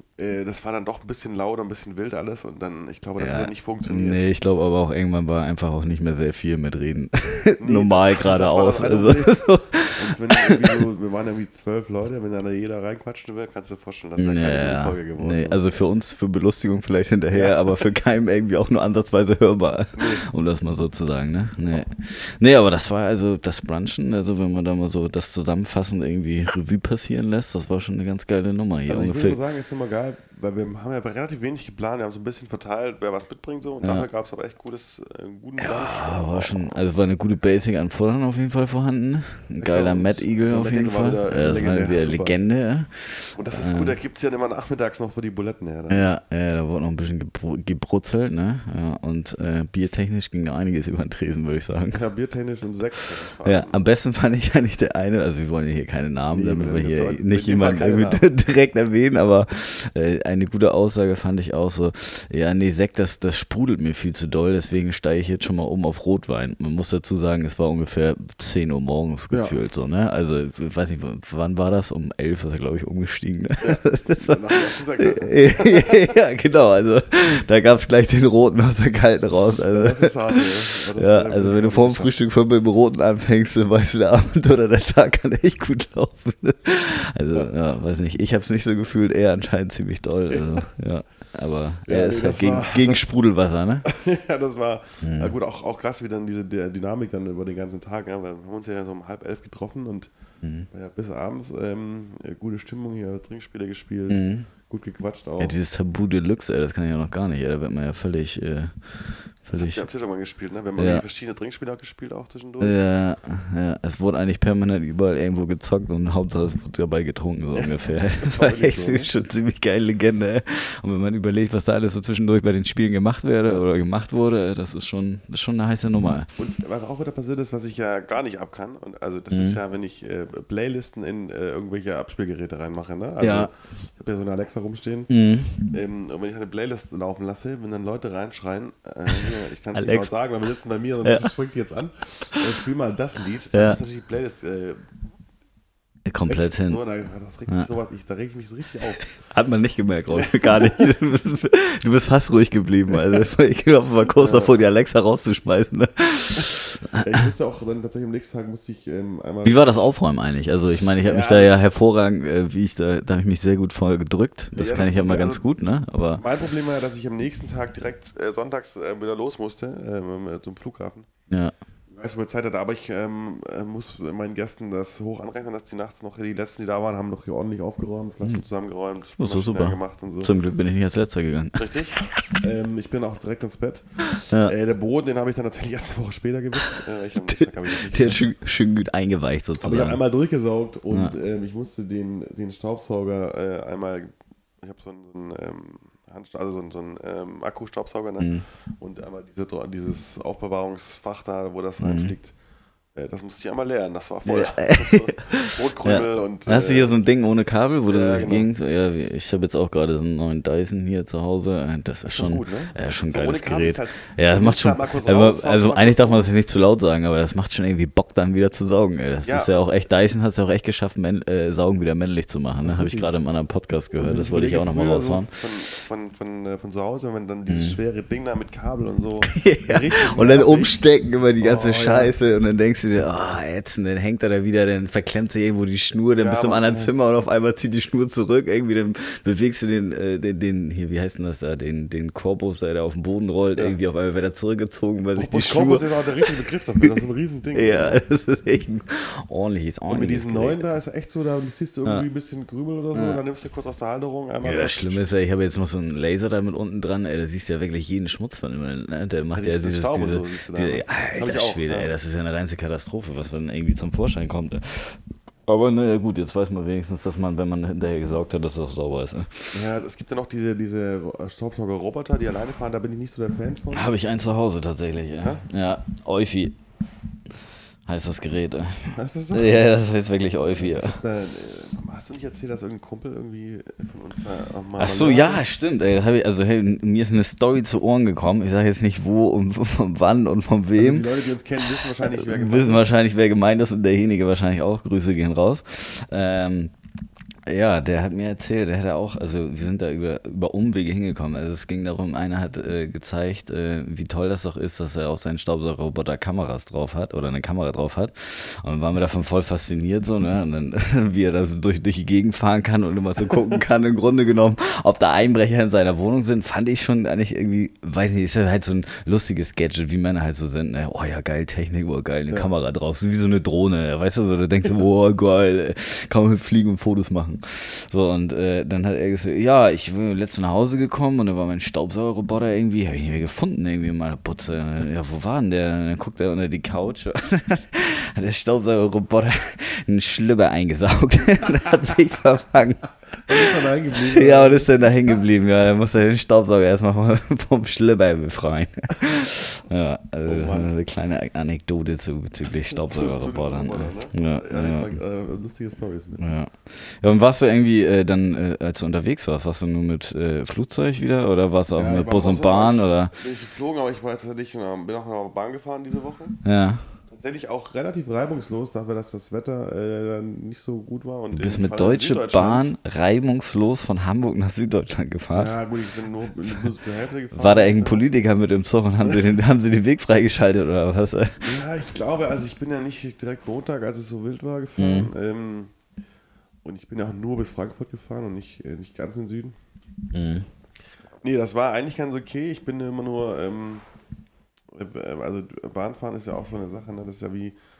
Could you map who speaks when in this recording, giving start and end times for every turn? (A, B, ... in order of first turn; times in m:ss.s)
0:00.2-0:04.2 A
0:03.2-0:10.8 B
0:07.6-0:15.8 A
0:14.2-0:29.4 B
0:17.3-0:17.8 A
0:20.0-0:20.2 A
0:28.9-0:36.9 A
0:35.6-0:43.9 B
0:39.6-0:42.4 A
0:43.4-0:46.1 A
0:45.9-0:52.0 B
0:51.9-0:53.8 A
0:53.4-1:33.8 B
0:56.3-0:58.3 A
1:09.3-1:09.6 A
1:13.6-1:16.2 A
1:19.7-1:22.1 A
1:30.3-1:30.6 A
1:31.9-1:33.2 A
1:33.8-1:40.1 A
1:35.0-1:35.3 B
1:40.4-1:40.7 B
1:40.7-1:45.5 A
1:44.1-1:44.5 B
1:45.4-1:49.8 B
1:49.5-1:52.8 A
1:50.8-1:51.0 B
1:52.6-2:06.3 B
1:57.5-1:59.1 A
2:06.4-2:24.8 A
2:09.3-2:09.6 B
2:13.2-2:13.5 B
2:15.1-2:15.7 B
2:19.1-2:20.1 B
2:21.0-2:21.3 B
2:23.5-2:23.8 B
2:26.0-2:26.8 B
2:26.3-2:29.0 A
2:29.2-2:37.2 B
2:30.1-2:30.9 A
2:32.9-2:33.2 A
2:34.1-2:34.5 A
2:36.9-2:39.6 A
2:39.4-2:46.2 B
2:41.0-2:41.5 A
2:44.5-2:45.4 A
2:46.1-2:51.1 A
2:51.9-3:00.4 A
2:59.2-3:02.4 B
3:01.6-3:08.2 A
3:04.1-3:04.5 B
3:06.6-3:10.0 B
3:09.6-3:22.3 A
3:18.2-3:18.4 B
3:21.8-3:22.1 B
3:22.9-3:27.0 A
3:24.2-3:45.4 B
3:27.9-3:28.5 A
3:32.0-3:36.3 A
3:39.2-3:39.5 A
3:42.6-3:43.2 A
3:44.0-3:50.8 A
3:47.5-3:47.8 B
3:49.3-4:06.9 B
3:51.4-3:52.1 A
3:56.2-3:56.9 A
4:05.2-4:08.0 A
4:07.5-4:10.6 B
4:09.9-4:15.1 A
4:12.9-4:13.2 B
4:14.4-4:29.6 B
4:19.3-4:21.9 A
4:29.5-4:33.9 A
4:33.7-4:36.6 B
4:37.8-4:41.0 B
4:38.9-4:39.7 A
4:40.4-4:45.4 A
4:44.8-4:51.0 B
4:50.8-4:52.9 A
4:52.0-4:56.7 B
4:57.4-5:43.5 B
5:43.3-5:45.2 A
5:44.1-5:54.9 B
5:50.2-5:50.7 A
5:52.7-5:56.2 A
5:56.2-6:03.2 B
6:01.8-6:06.4 A
6:06.4-6:06.8 B
6:07.1-6:12.7 A
6:11.3-6:15.5 B
6:15.3-6:18.1 A
6:17.3-6:21.4 B
6:21.4-6:25.7 A
6:24.8-6:25.1 B
6:26.6-6:29.5 A
6:30.1-6:30.4 B
6:31.2-6:33.8 A
6:34.7-6:37.6 A